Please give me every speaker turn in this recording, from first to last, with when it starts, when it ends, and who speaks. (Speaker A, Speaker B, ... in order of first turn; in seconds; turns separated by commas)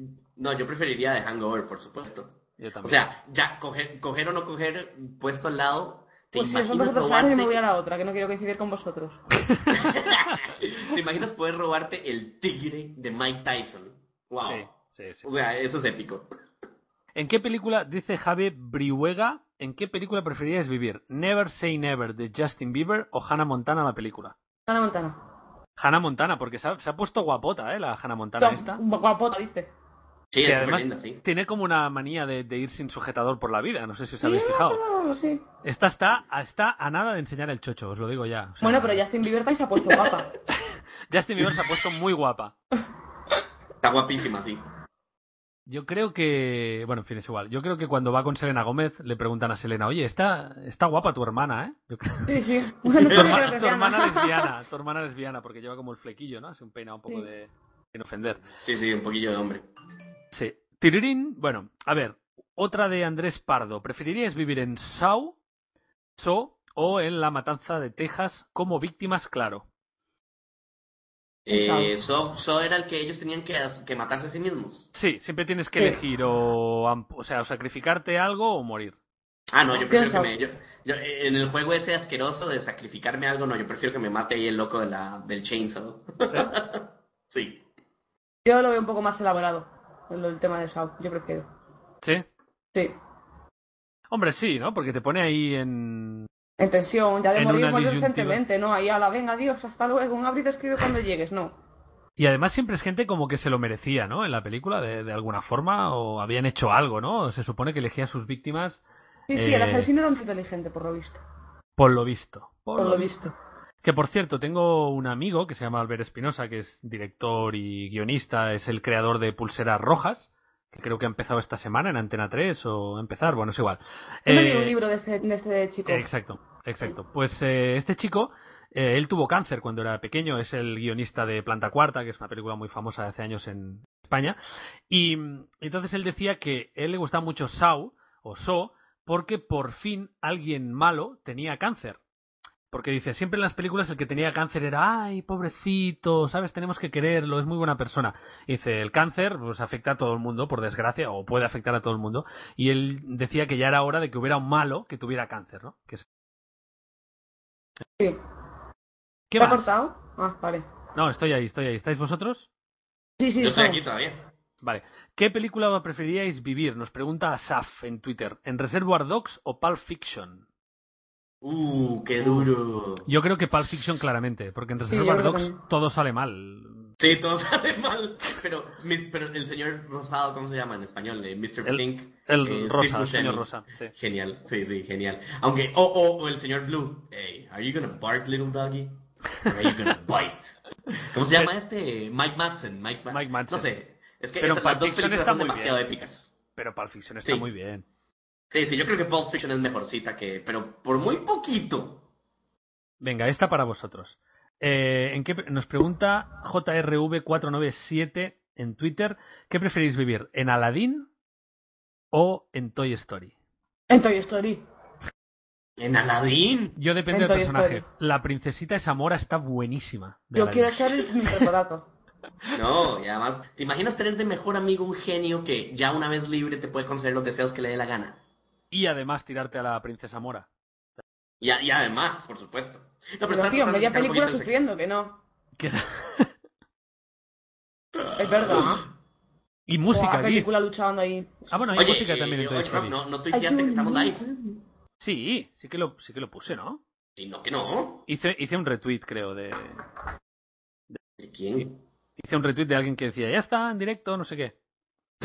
Speaker A: 0.3-7.6, Speaker B: 2.6-3.0, Speaker C: 6.3-9.2, Speaker B: 9.5-10.4, Speaker A: 9.7-16.3, Speaker B: 14.4-15.2, Speaker B: 17.1-24.3, Speaker C: 24.7-25.2, Speaker B: 25.8-28.8, Speaker C: 28.4-29.7, Speaker A: 30.3-31.2, Speaker B: 30.4-34.8, Speaker C: 34.2-35.4, Speaker B: 35.6-39.0, Speaker C: 38.6-40.3, Speaker B: 40.5-42.5, Speaker A: 43.8-44.6, Speaker B: 45.7-52.3, Speaker C: 52.2-54.5, Speaker B: 52.9-58.4, Speaker A: 53.1-53.5, Speaker A: 58.6-59.7, Speaker B: 60.3-65.4, Speaker B: 66.2-69.6, Speaker A: 71.5-74.9, Speaker C: 71.5-71.9, Speaker B: 74.9-78.9, Speaker A: 79.5-87.6, Speaker C: 79.7-80.3, Speaker C: 88.4-91.5, Speaker B: 94.1-96.3, Speaker C: 96.6-101.6, Speaker B: 97.4-98.4, Speaker B: 102.2-108.8, Speaker C: 109.3-111.2, Speaker B: 109.3-109.9, Speaker B: 111.8-113.3, Speaker C: 112.8-113.3, Speaker B: 113.8-124.7, Speaker C: 124.2-126.1, Speaker B: 125.9-134.4, Speaker B: 134.9-142.0, Speaker B: 142.7-156.0, Speaker B: 159.3-159.7, Speaker C: 159.4-160.7, Speaker B: 160.9-162.5, Speaker C: 163.2-163.9, Speaker A: 163.4-164.3, Speaker B: 164.6-170.4, Speaker A: 171.4-173.1, Speaker B: 172.2-172.5, Speaker B: 173.1-176.9, Speaker C: 174.9-175.6, Speaker A: 177.0-196.4, Speaker B: 181.6-183.9, Speaker B: 193.1-193.7, Speaker B: 194.4-195.8, Speaker B: 196.6-197.8, Speaker A: 198.5-202.0, Speaker B: 203.0-211.1, Speaker B: 212.1-213.3, Speaker C: 213.9-214.6, Speaker A: 215.8-216.8, Speaker B: 216.8-220.8, Speaker C: 217.1-217.8, Speaker C: 220.3-221.9, Speaker A: 222.5-228.2, Speaker B: 228.7-230.5, Speaker A: 231.4-234.6, Speaker C: 233.3-235.2, Speaker B: 235.6-236.3, Speaker A: 237.9-238.8, Speaker C: 238.2-238.9, Speaker B: 239.7-240.5, Speaker C: 239.9-241.6, Speaker B: 241.5-242.9, Speaker A: 241.7-244.2, Speaker C: 243.3-244.6, Speaker B: 245.0-246.8, Speaker A: 247.2-248.1, Speaker B: 248.1-249.8, Speaker A: 251.2-251.8, Speaker B: 252.2-254.5